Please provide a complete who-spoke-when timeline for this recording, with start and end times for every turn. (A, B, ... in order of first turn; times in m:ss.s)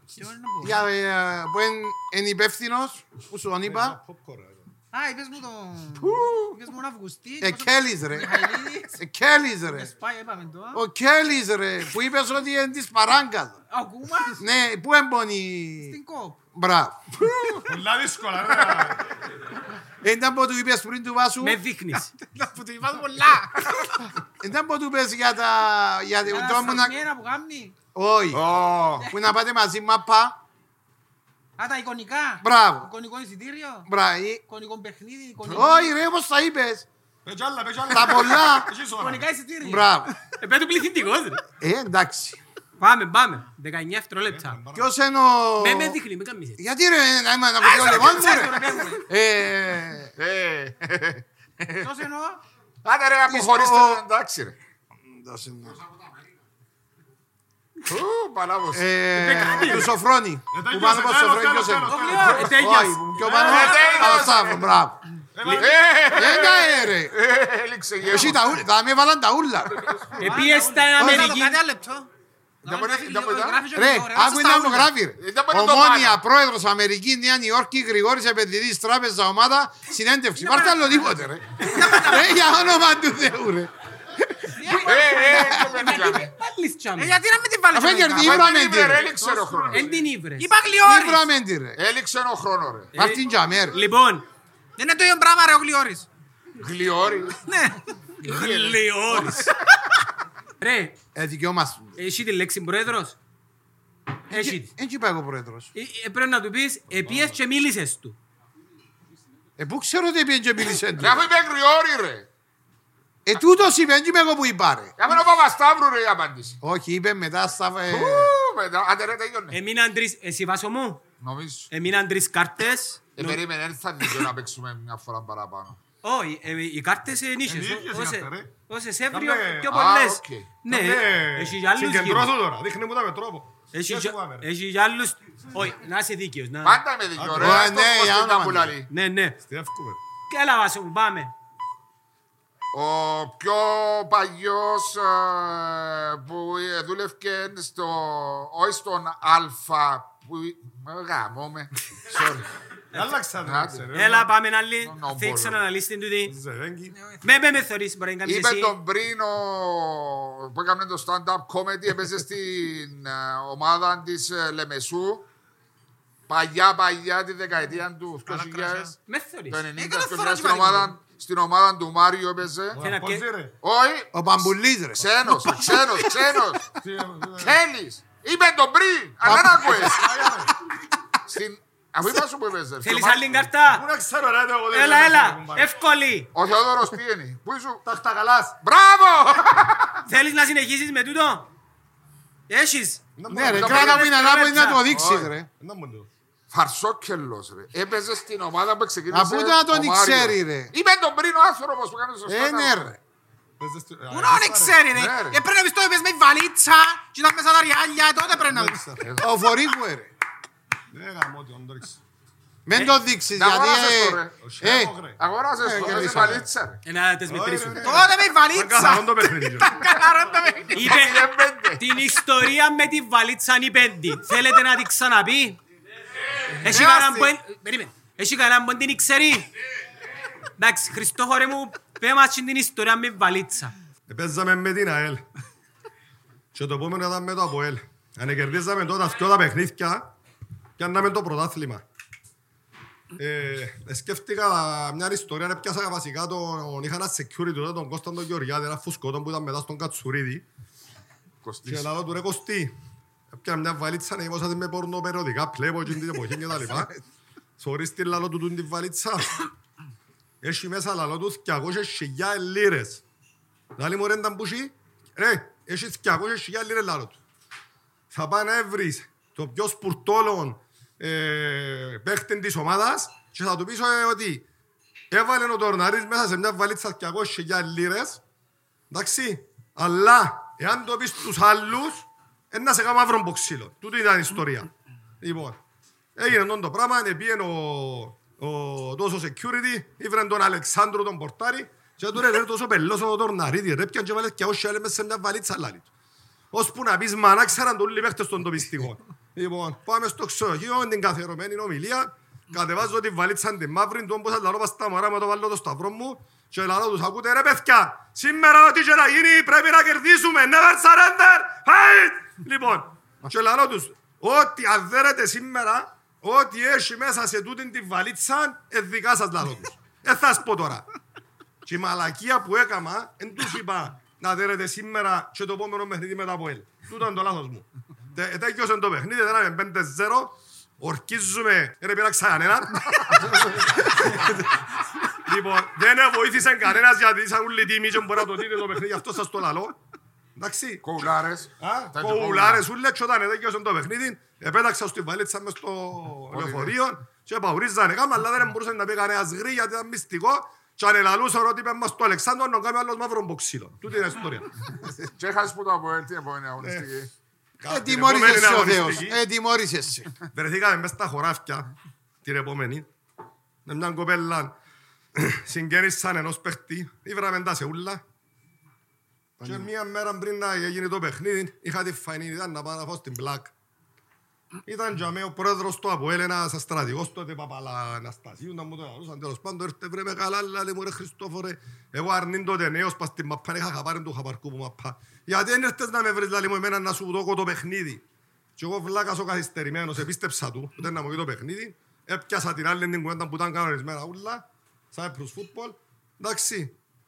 0:00.2-0:00.8 A
0:00.6-0:04.0 B
0:03.6-0:04.7 C
0:04.9-0:09.0 A
0:06.0-0:06.6 D
0:07.4-0:09.9 B
0:09.7-0:10.8 A
0:10.7-0:13.6 B
0:13.7-0:14.4 A
0:14.4-0:16.0 B
0:15.9-0:16.4 A
0:16.6-0:17.2 B
0:17.2-0:17.7 D
0:17.7-0:19.0 C
0:20.0-0:21.6 B
0:21.4-0:22.1 E
0:22.0-0:23.8 A
0:24.4-0:27.0 B
0:26.3-0:27.8 A
0:28.0-0:28.4 B
0:28.3-0:29.1 D
0:29.1-0:30.4 B
0:31.6-0:33.9 A
0:32.4-0:32.9 B
0:33.9-0:34.4 B
0:34.5-0:35.9 A
0:35.5-0:36.9 B
0:37.2-0:39.3 C
0:37.9-0:38.7 B
0:39.0-0:41.4 E
0:39.6-0:40.1 B
0:41.6-0:42.4 B
0:42.8-0:44.6 E
0:44.2-0:44.9 C
0:44.7-0:46.0 B
0:45.6-0:46.6 E
0:46.6-0:50.1 B
0:47.6-0:49.0 A
0:50.1-0:51.9 D
0:51.8-0:52.4 A
0:52.8-0:54.6 D
0:53.3-0:54.0 B
0:55.0-0:55.8 B
0:57.9-0:58.9 D
0:58.7-1:05.0 B
0:59.2-0:59.9 E
1:00.5-1:02.6 C
1:01.9-1:02.6 A
1:01.9-1:04.2 E
1:03.3-1:04.8 D
1:03.4-1:04.1 A
1:05.4-1:06.7 C
1:05.4-1:08.6 D
1:06.1-1:07.2 B
1:08.0-1:09.9 B
1:10.2-1:12.1 A
1:10.2-1:11.6 E
1:11.0-1:11.3 B
1:12.6-1:14.9 A
1:12.6-1:13.7 D
1:13.7-1:25.7 B
1:15.2-1:16.2 D
1:20.4-1:21.1 A
1:21.6-1:22.0 E
1:21.6-1:22.6 A
1:24.6-1:26.2 A
1:24.8-1:26.3 D
1:25.9-1:27.2 E
1:27.0-1:29.8 A
1:27.7-1:29.1 B
1:28.1-1:29.9 D
1:29.7-1:30.5 E
1:30.4-1:31.2 A
1:30.8-1:31.8 B
1:31.8-1:32.9 D
1:32.9-1:34.2 E
1:33.0-1:33.8 B
1:34.8-1:36.1 A
1:36.6-1:37.4 D
1:37.5-1:37.9 A
1:38.2-1:39.5 E
1:38.2-1:39.5 D
1:40.6-1:41.0 E
1:41.2-1:42.0 B
1:42.0-1:43.2 E
1:44.3-1:44.7 E
1:44.3-1:45.7 B
1:45.7-1:48.2 E
1:47.0-1:47.4 C
1:49.6-1:51.3 B
1:51.0-1:52.3 D
1:53.3-1:54.9 B
1:55.0-1:56.6 D
1:56.6-1:58.3 B
1:57.9-1:59.6 D
1:59.5-2:01.0 E
2:01.2-2:01.7 D
2:01.7-2:03.4 E
2:03.2-2:05.8 D
2:06.0-2:12.3 E
2:07.5-2:08.5 C
2:09.1-2:09.8 C
2:09.7-2:10.6 D
2:10.6-2:14.5 C
2:13.7-2:16.8 E
2:16.6-2:18.9 D
2:17.2-2:17.6 C
2:17.4-2:18.8 B
2:18.9-2:19.4 E
2:19.5-2:20.0 C
2:20.3-2:21.3 E
2:22.7-2:32.5 D
2:32.9-2:34.3 C
2:33.4-2:33.9 D
2:33.9-2:36.4 E
2:34.8-2:35.6 D
2:36.3-2:37.0 C
2:36.9-2:37.2 A
2:37.2-2:38.8 E
2:38.2-2:45.3 D
2:46.3-2:49.0 D
2:48.3-2:48.9 A
2:49.1-2:49.6 E
2:49.5-2:52.8 D
2:49.8-2:50.9 A
2:52.7-2:53.6 C
2:52.8-2:53.3 E
2:53.6-2:56.7 D
2:54.1-2:55.4 B
2:56.8-2:57.6 C
2:57.4-3:00.1 D
2:59.2-2:59.8 B
2:59.3-3:00.5 C
3:01.3-3:03.5 D
3:02.8-3:03.8 E
3:03.6-3:05.7 C
3:04.7-3:06.3 E
3:06.3-3:07.8 D
3:07.8-3:08.6 C
3:08.6-3:10.0 D
3:10.1-3:11.5 E
3:12.5-3:13.0 E
3:13.2-3:14.0 C
3:13.3-3:15.5 B
3:13.5-3:14.1 D
3:13.6-3:14.8 E
3:14.9-3:15.3 D
3:15.6-3:16.1 C
3:16.5-3:23.0 D
3:19.1-3:20.7 B
3:22.3-3:23.0 B
3:23.6-3:24.8 C
3:24.1-3:28.8 A
3:24.9-3:25.4 D
3:28.5-3:29.0 C
3:29.0-3:29.3 D
3:29.2-3:30.1 B
3:30.9-3:32.0 C
3:32.7-3:34.9 B
3:32.7-3:34.4 D
3:34.4-3:36.4 C
3:35.2-3:36.8 D
3:35.6-3:36.4 B
3:36.8-3:38.1 E
3:37.3-3:39.8 C
3:37.8-3:40.9 A
3:40.7-3:41.8 D
3:40.7-3:41.2 E
3:41.8-3:45.6 E
3:46.6-3:49.5 E
3:46.6-3:47.3 A
3:50.6-3:53.7 E
3:54.1-3:55.2 C
3:56.5-4:00.1 C
4:00.8-4:01.8 C
4:03.2-4:10.5 C
4:11.4-4:11.9 D
4:11.7-4:12.7 C
4:13.3-4:17.0 C
4:17.6-4:19.5 C
4:20.4-4:23.0 C
4:23.8-4:27.2 C
4:28.1-4:34.5 C
4:35.1-4:38.2 C
4:38.9-4:45.6 C
4:46.2-4:55.9 C
4:56.5-5:20.9 C
5:21.6-5:34.5 C
5:35.2-5:39.8 C
5:40.4-5:54.5 C
5:40.8-5:42.6 D
5:46.3-5:46.8 D
5:55.2-5:57.1 D
5:56.6-5:56.9 C
5:57.6-5:59.2 C
5:57.6-6:00.1 B
6:00.3-6:01.7 C
6:02.2-6:02.9 C
6:03.7-6:04.6 C
6:05.2-6:08.0 C
6:09.4-6:13.5 C
6:14.7-6:28.0 C
6:28.6-6:36.8 C